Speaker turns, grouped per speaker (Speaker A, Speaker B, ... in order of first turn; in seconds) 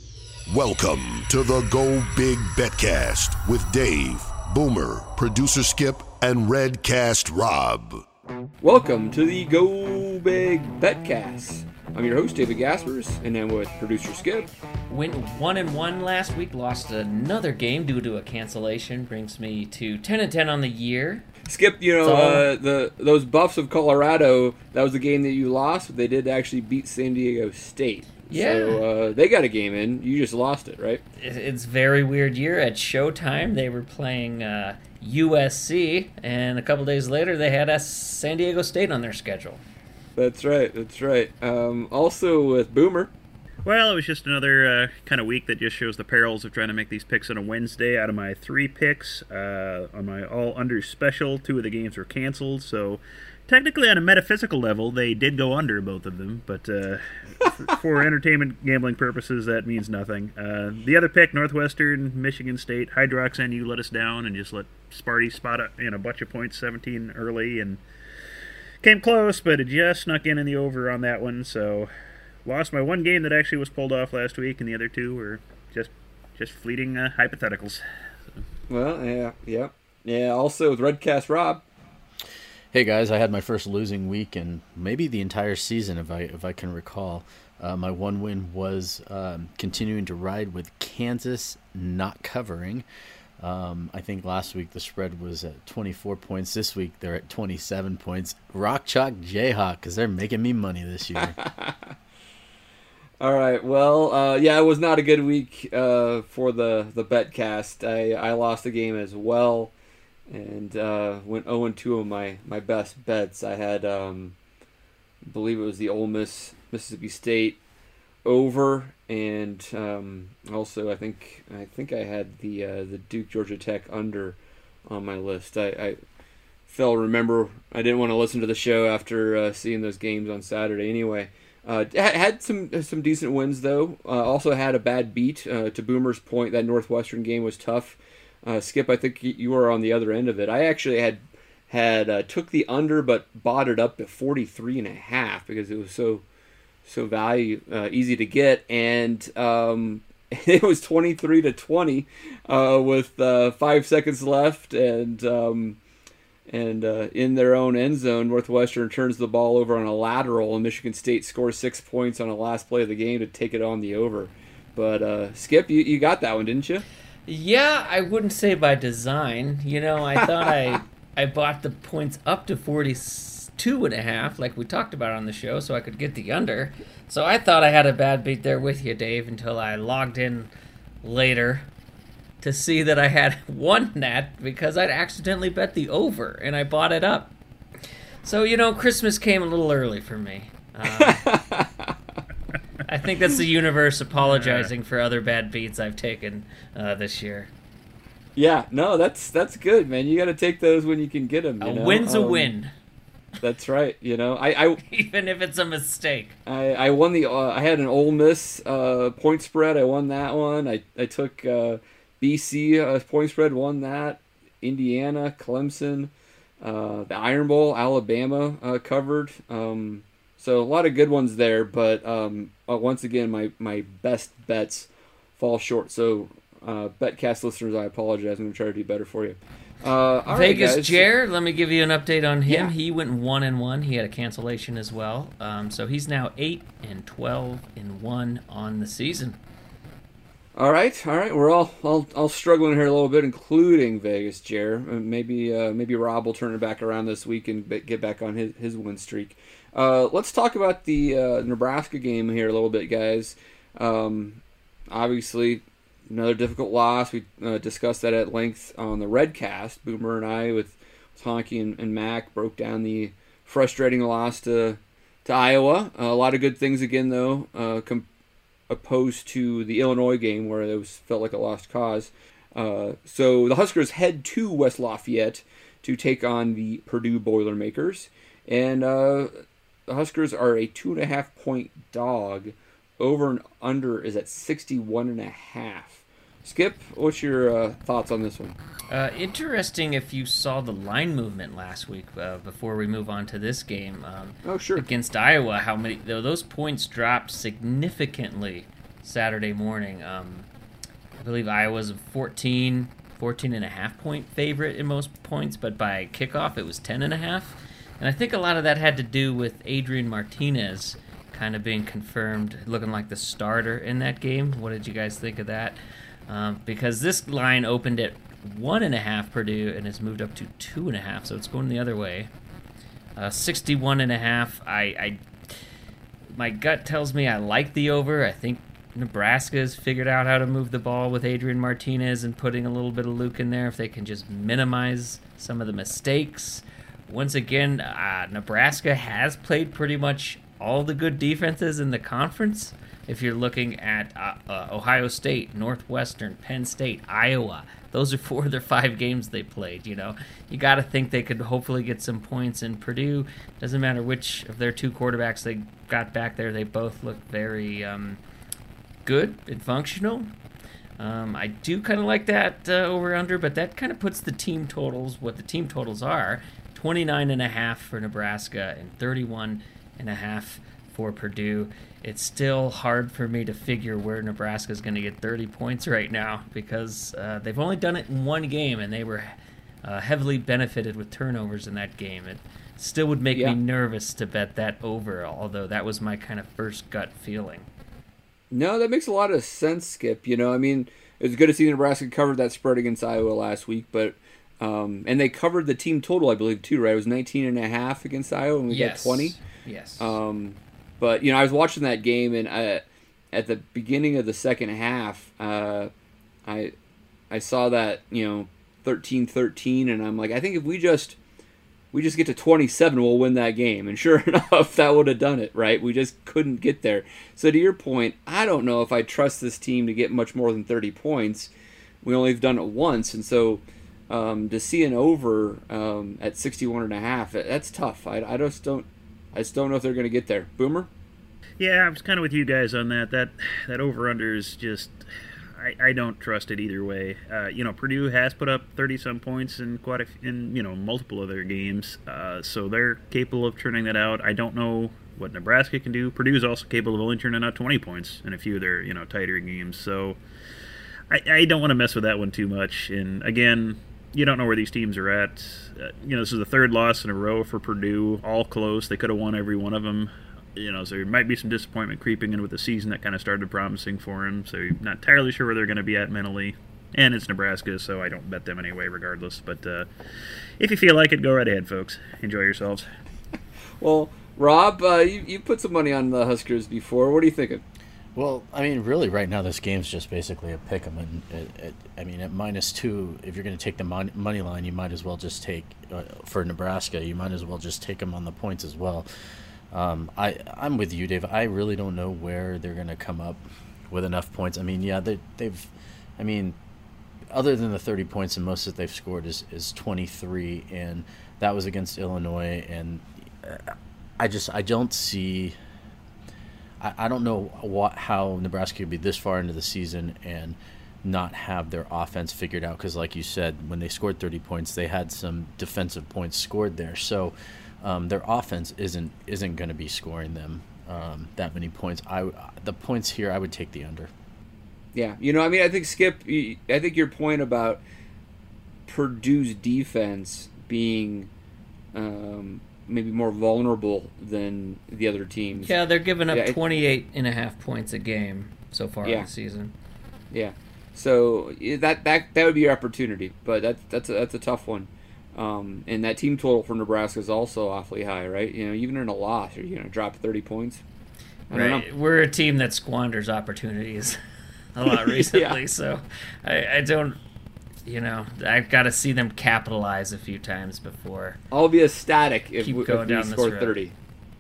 Speaker A: 0.5-8.1
Speaker B: 8.6-14.5, 21.5-31.0, 40.2-43.1, 78.7-81.7, 101.2-101.9, 103.2-109.7, 110.3-114.3, 115.3-117.6, 118.2-126.0, 126.7-146.2, 146.9-155.8, 156.5-166.8, 190.9-191.9, 198.4-202.5, 203.4-204.8, 206.5-216.1, 216.6-231.1, 232.5-232.7, 240.6-268.1, 268.7-279.3, 279.9-288.6, 294.4-294.9, 388.5-399.4, 400.0-405.9, 406.5-406.7, 407.3-411.2, 411.9-421.5, 422.0-430.9, 473.8-477.6, 524.9-527.8, 528.9-531.3, 531.9-535.7, 536.3-536.6, 540.3-550.8, 551.5-551.9, 554.9-555.6, 561.5-563.9
Speaker C: 14.9-21.3, 22.0-22.5, 28.3-28.8, 31.2-39.6, 167.3-180.5, 181.0-181.7, 182.4-187.3, 188.2-191.2, 192.9-197.5, 201.6-202.7, 204.8-206.4, 230.3-239.4, 288.9-300.5, 301.2-315.8, 316.3-322.3, 323.2-325.2, 326.4-358.2, 359.1-360.3, 361.0-387.7, 398.7-400.2, 535.6-539.8, 551.5-554.2, 554.8-557.2, 557.9-561.4, 562.6-563.8
Speaker D: 43.6-67.8, 68.8-71.9, 72.5-77.8, 194.2-194.7, 431.6-450.2, 451.1-469.9, 470.6-472.9
Speaker E: 82.7-92.9, 93.4-101.4, 478.1-489.1, 489.7-496.6, 497.3-505.6, 506.8-524.1